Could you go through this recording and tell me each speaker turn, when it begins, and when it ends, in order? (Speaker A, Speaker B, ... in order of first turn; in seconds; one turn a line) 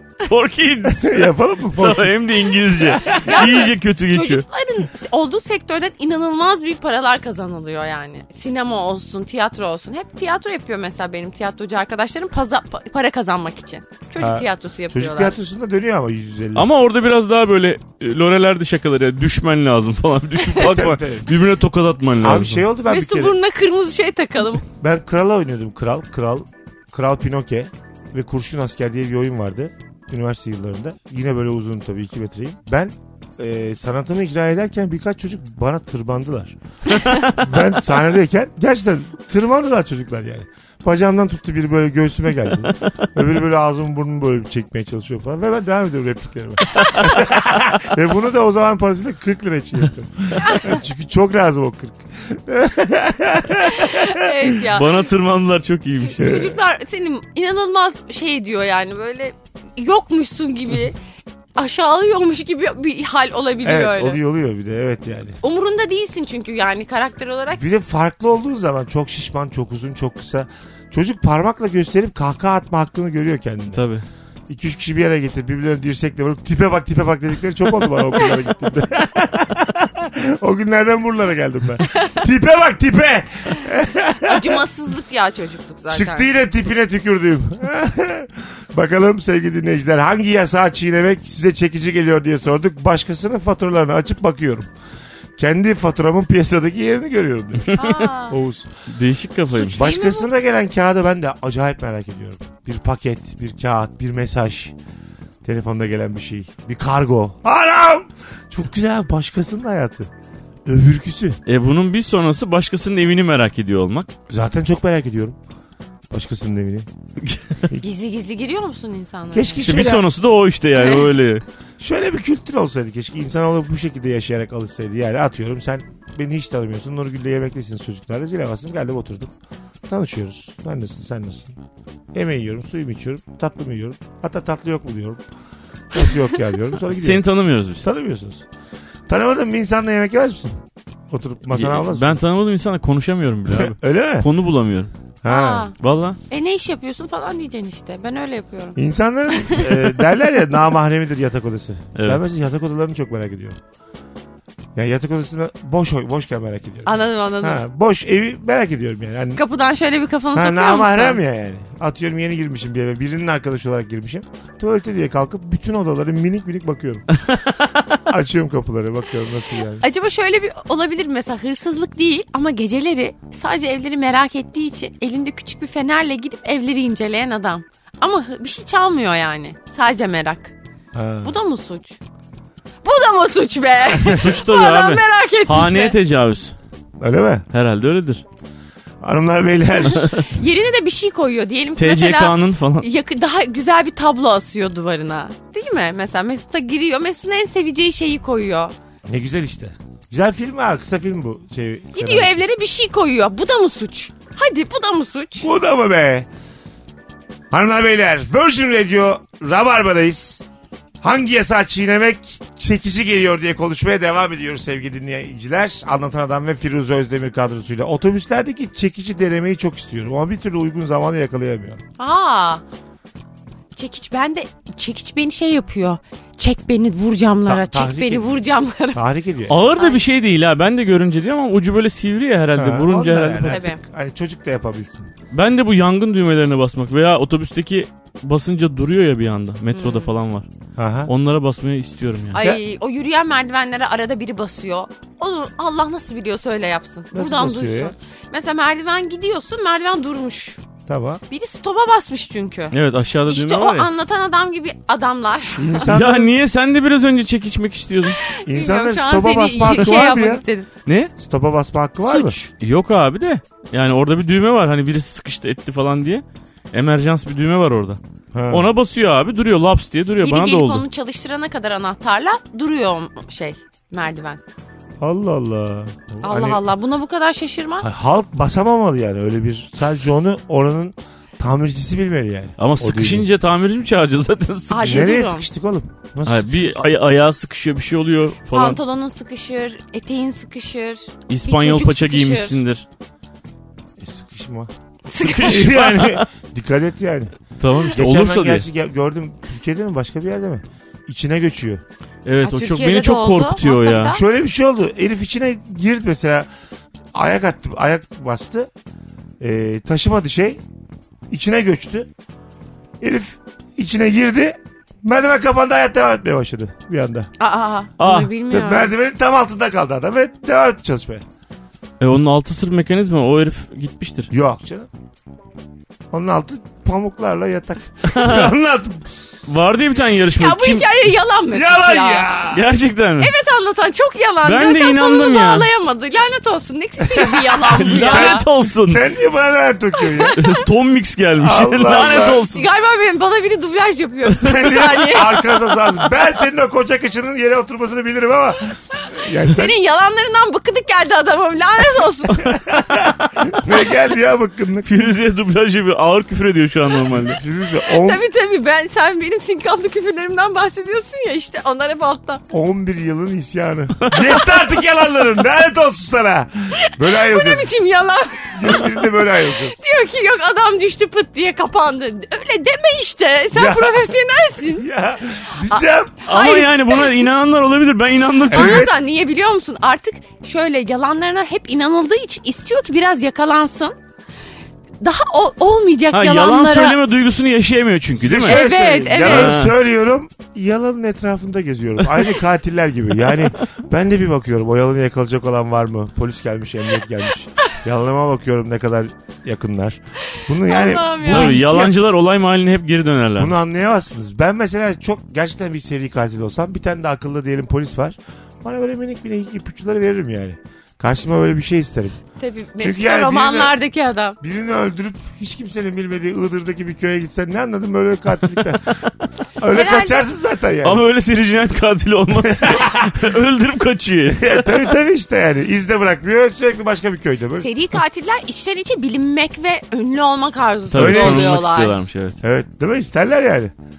Speaker A: 0.3-4.5
Speaker B: 0.9-2.2
Speaker B: 2.8-3.5
Speaker C: 3.1-15.4
Speaker B: 14.2-16.7
Speaker A: 16.6-22.6
Speaker B: 20.5-21.3
Speaker B: 22.2-23.4
Speaker C: 22.9-24.6
Speaker B: 24.8-36.6
Speaker B: 37.2-54.5
Speaker C: 53.7-55.0
Speaker A: 54.6-56.5
Speaker C: 56.0-61.0
Speaker B: 56.2-56.6
Speaker C: 61.6-64.2
Speaker B: 63.6-65.4
Speaker C: 65.4-67.6
Speaker B: 67.6-73.8
Speaker A: 73.7-74.0
Speaker B: 74.5-84.6
Speaker C: 84.2-86.3
Speaker B: 85.9-94.7
Speaker B: 95.4-98.7
Speaker A: 97.7-98.0
Speaker C: 97.7-98.4
Speaker A: 98.9-99.8
Speaker C: 99.5-100.3
Speaker B: 99.8-104.8
Speaker B: 105.4-110.1
Speaker B: 110.7-111.4
Speaker A: 111.5-114.1
Speaker B: 114.3-115.4
Speaker B: 116.1-116.9
Speaker A: 117.2-117.7
Speaker C: 117.8-119.7
Speaker B: 119.3-120.1
Speaker A: 119.6-121.4
Speaker C: 120.8-121.0
Speaker B: 121.8-129.3
Speaker B: 129.9-131.6
Speaker B: 132.1-135.2
Speaker B: 135.9-137.2
Speaker A: 136.9-137.8
Speaker B: 137.8-138.5
Speaker B: 139.1-142.2
Speaker A: 141.5-144.9
Speaker B: 143.5-144.3
Speaker B: 145.2-145.7
Speaker C: 145.3-145.7
Speaker A: 145.8-146.2
Speaker C: 146.3-148.8
Speaker B: 148.8-153.6
Speaker C: 149.3-149.9
Speaker A: 152.0-152.2
Speaker B: 154.8-159.4
Speaker C: 156.9-157.6
Speaker C: 159.3-161.2
Speaker B: 160.3-167.1
Speaker A: 167.3-167.7
Speaker B: 168.1-169.8
Speaker C: 169.8-180.5
Speaker B: 180.9-181.4
Speaker C: 181.2-182.0
Speaker C: 182.8-186.0
Speaker A: 184.1-186.6
Speaker B: 187.0-187.5
Speaker A: 187.5-188.2
Speaker B: 189.0-190.1
Speaker C: 189.9-198.7
Speaker A: 189.9-190.2
Speaker A: 191.8-192.9
Speaker B: 199.1-202.3
Speaker C: 201.9-205.5
Speaker B: 205.4-206.3
Speaker B: 207.5-210.4
Speaker B: 211.0-221.8
Speaker C: 222.0-222.6
Speaker C: 223.8-229.0
Speaker B: 227.5-228.4
Speaker B: 228.9-229.6
Speaker A: 229.5-233.6
Speaker C: 229.7-230.0
Speaker B: 232.6-235.1
Speaker C: 233.5-233.8
Speaker A: 235.3-240.5
Speaker C: 239.7-240.1
Speaker B: 240.8-241.1
Speaker A: 241.1-242.5
Speaker C: 242.3-250.6
Speaker B: 247.1-247.9
Speaker B: 250.9-251.2
Speaker C: 251.3-252.8
Speaker A: 252.7-253.9
Speaker C: 253.3-255.9
Speaker B: 255.6-256.3
Speaker A: 255.9-258.2
Speaker C: 258.2-260.7
Speaker B: 258.4-260.4
Speaker A: 260.9-261.1
Speaker B: 261.2-262.4
Speaker C: 262.0-262.5
Speaker A: 262.5-270.9
Speaker B: 268.3-268.7
Speaker C: 270.2-274.4
Speaker B: 275.0-276.6
Speaker C: 276.2-277.9
Speaker B: 277.8-283.3
Speaker A: 282.6-285.1
Speaker C: 284.7-285.5
Speaker B: 284.8-286.8
Speaker A: 286.2-288.8
Speaker C: 288.5-292.6
Speaker A: 291.3-292.9
Speaker B: 294.0-294.7
Speaker C: 295.1-295.8
Speaker A: 295.2-296.3
Speaker B: 295.3-297.3
Speaker A: 297.6-298.7
Speaker B: 297.9-301.8
Speaker A: 302.2-304.2
Speaker C: 302.4-304.2
Speaker B: 304.1-306.5
Speaker B: 307.1-308.7
Speaker B: 309.4-310.6
Speaker B: 311.3-312.1
Speaker B: 313.0-317.3
Speaker C: 317.4-318.9
Speaker A: 318.0-318.3
Speaker B: 318.5-321.2
Speaker A: 322.0-324.3
Speaker B: 324.3-324.9
Speaker B: 326.1-329.1
Speaker A: 328.1-328.5
Speaker A: 329.5-330.9
Speaker C: 330.3-332.3
Speaker B: 331.5-332.7
Speaker A: 332.5-333.3
Speaker C: 333.2-338.4
Speaker A: 334.4-335.7
Speaker B: 337.1-337.4
Speaker A: 337.6-339.0
Speaker B: 337.9-340.4
Speaker C: 340.1-340.6
Speaker A: 340.4-342.7
Speaker B: 341.4-342.4
Speaker C: 342.4-345.8
Speaker B: 344.4-349.7
Speaker C: 349.0-352.6
Speaker B: 352.4-355.1
Speaker A: 354.8-357.4
Speaker B: 357.2-358.2
Speaker C: 357.8-362.4
Speaker B: 362.5-367.8
Speaker A: 364.0-364.3
Speaker C: 366.7-374.9
Speaker B: 368.5-369.8
Speaker B: 373.5-374.1
Speaker B: 374.7-376.3
Speaker C: 375.7-377.2
Speaker A: 376.3-378.9
Speaker C: 378.5-384.0
Speaker B: 378.5-378.9
Speaker C: 385.0-387.0
Speaker A: 386.1-388.6
Speaker B: 388.1-402.0
Speaker C: 388.4-389.6
Speaker A: 389.2-389.7
Speaker C: 400.3-401.7
Speaker A: 401.2-403.6
Speaker B: 403.4-412.2
Speaker C: 412.4-414.4
Speaker B: 412.8-413.8
Speaker B: 414.4-419.0
Speaker B: 419.6-421.0
Speaker C: 419.7-420.2
Speaker A: 420.8-424.8
Speaker B: 422.4-423.2
Speaker B: 424.3-427.7
Speaker C: 427.6-432.0
Speaker A: 430.9-432.4
Speaker B: 430.9-431.6
Speaker B: 432.4-433.7